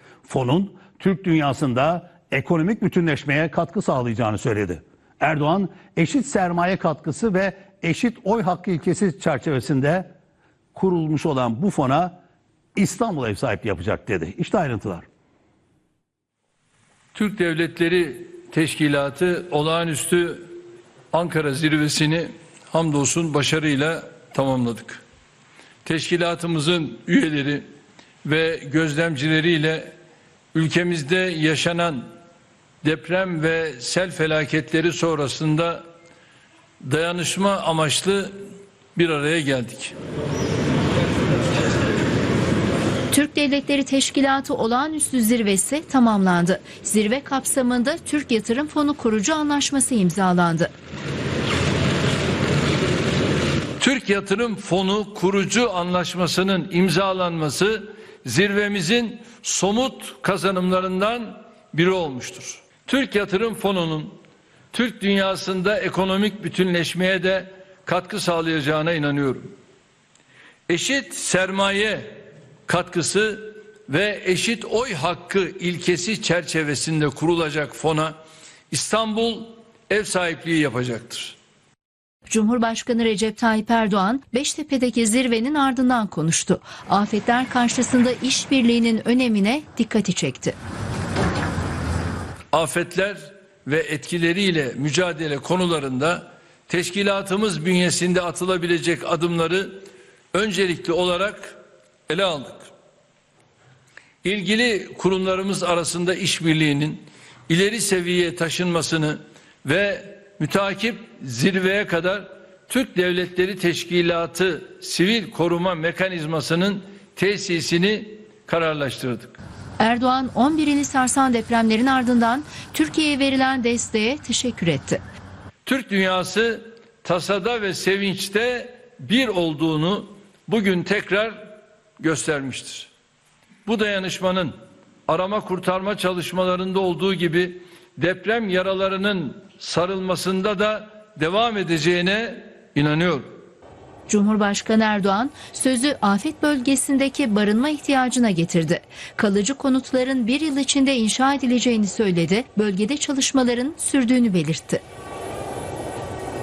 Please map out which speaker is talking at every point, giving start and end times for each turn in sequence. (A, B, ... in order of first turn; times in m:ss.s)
0:00.3-0:10.1 A
0:10.7-0:12.2 A
0:12.7-0:15.1 A
0:17.1-0:20.6 B
0:21.1-0:25.0 B
0:25.8-0:27.7 B
0:28.2-0:30.0 B
0:30.5-0:32.2 B
0:32.8-0:35.9 B
0:36.8-0:38.4 B
0:39.0-0:40.0 B
0:43.1-0:50.7 C
0:53.8-1:04.2 B
1:04.7-1:09.6 B
1:10.7-1:18.2 B
1:18.7-1:21.4 B
1:22.3-1:30.6 C
1:32.5-1:42.7 B
1:44.2-1:59.4 B
1:59.8-2:05.0 C
2:05.6-2:12.9 B
2:13.6-2:14.6 B
2:15.1-2:23.4 B
2:24.1-2:34.8 C